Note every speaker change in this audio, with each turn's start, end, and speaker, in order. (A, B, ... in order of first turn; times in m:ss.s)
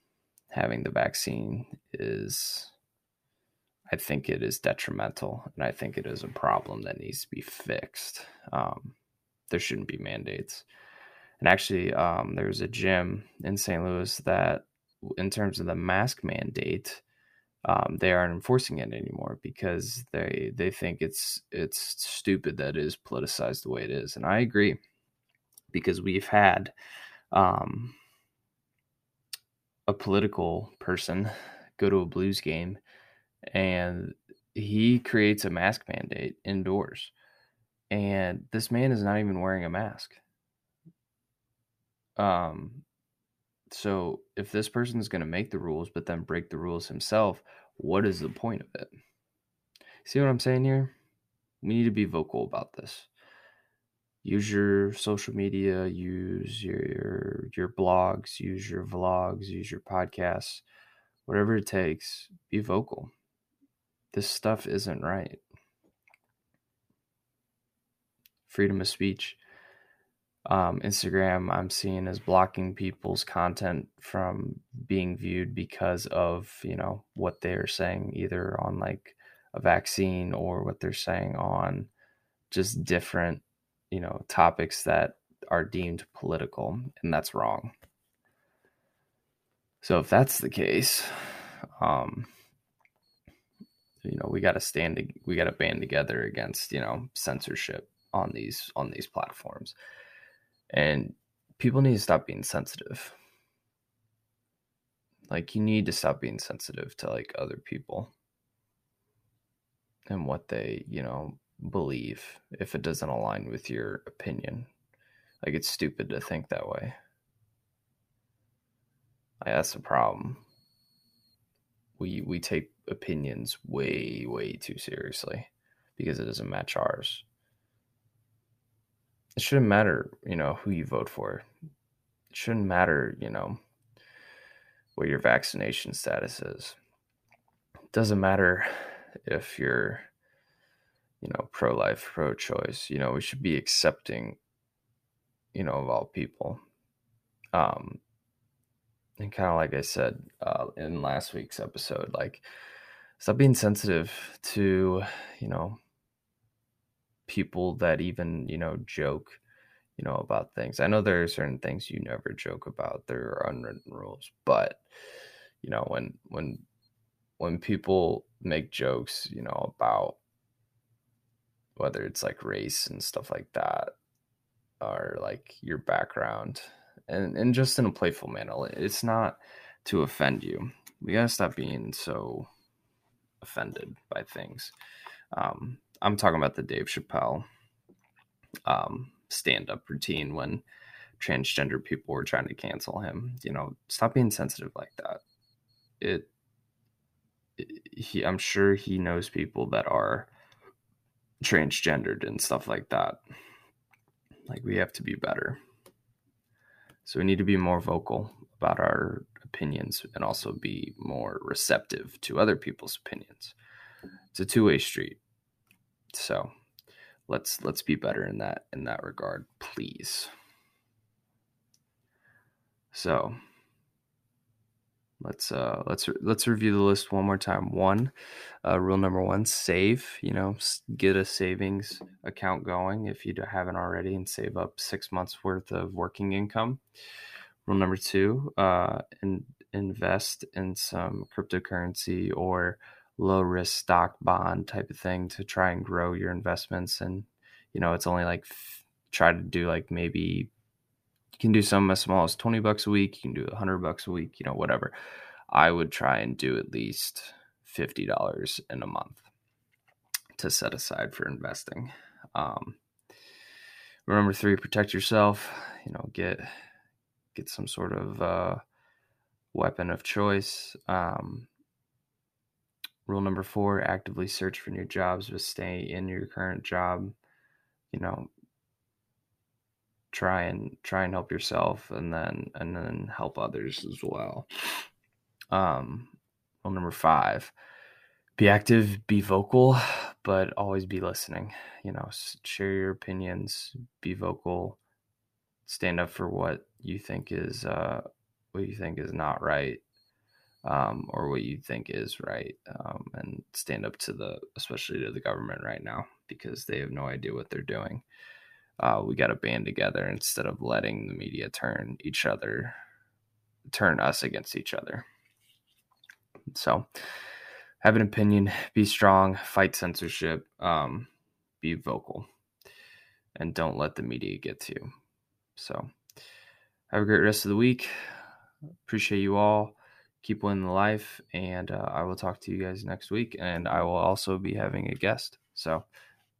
0:00.5-0:02.7 A
0:03.9-0:08.9 A
0:09.5-0:10.6 A
0:11.4-0:17.0 A
0:17.6-0:24.8 A
0:25.7-0:26.7 A
0:27.3-0:28.0 A
0:29.9-0:32.8 A
0:33.5-0:37.1 A
0:37.9-0:40.2 A
0:42.2-0:42.8 A
0:43.7-0:48.9 A
0:50.0-0:50.9 A
0:51.6-0:53.1 A
0:54.2-1:00.6 A
1:01.2-1:03.1 A
1:04.1-1:05.4 A
1:08.5-1:09.4 A
1:10.5-1:21.9 A
1:22.5-1:27.7 A
1:29.8-1:32.3 A
1:34.0-1:39.8 A
1:40.7-1:43.2 A
1:45.3-1:48.1 A
1:50.1-1:54.7 A
1:55.4-1:56.9 A
1:59.4-2:00.4 A
2:02.0-2:07.2 A
2:09.4-2:11.4 A
2:12.3-2:13.6 A
2:15.0-2:16.8 A
2:17.9-2:20.1 A
2:21.2-2:24.4 A
2:25.5-2:26.6 A
2:27.5-2:28.0 A
2:29.2-2:32.4 A
2:33.2-2:35.8 A
2:37.3-2:39.4 A
2:40.0-2:44.8 A
2:45.6-2:46.6 A
2:47.4-2:50.2 A
2:51.8-2:53.9 A
2:54.8-3:02.5 A
3:03.4-3:04.7 A
3:05.3-3:07.4 A
3:08.6-3:10.6 A
3:11.2-3:15.2 A
3:16.0-3:16.3 A
3:17.6-3:20.3 A
3:21.4-3:23.2 A
3:24.5-3:25.6 A
3:27.0-3:33.6 A
3:34.3-3:35.2 A
3:36.1-3:36.5 A
3:37.3-3:40.3 A
3:42.9-3:43.4 A
3:45.2-3:48.1 A
3:48.6-3:56.8 A
3:57.6-4:10.5 A
4:11.4-4:14.9 A
4:15.5-4:19.3 A
4:20.4-4:22.8 A
4:24.0-4:26.5 A
4:27.3-4:28.6 A
4:29.5-4:31.5 A
4:33.0-4:37.2 A
4:37.9-4:38.3 A
4:40.1-4:44.5 A
4:45.5-4:47.5 A
4:48.4-4:54.8 A
4:55.6-4:59.8 A
5:00.6-5:08.0 A
5:08.8-5:12.8 A
5:13.7-5:15.0 A
5:16.5-5:16.9 A
5:17.8-5:22.3 A
5:23.4-5:24.9 A
5:25.6-5:25.9 A
5:26.9-5:27.9 A
5:28.8-5:35.8 A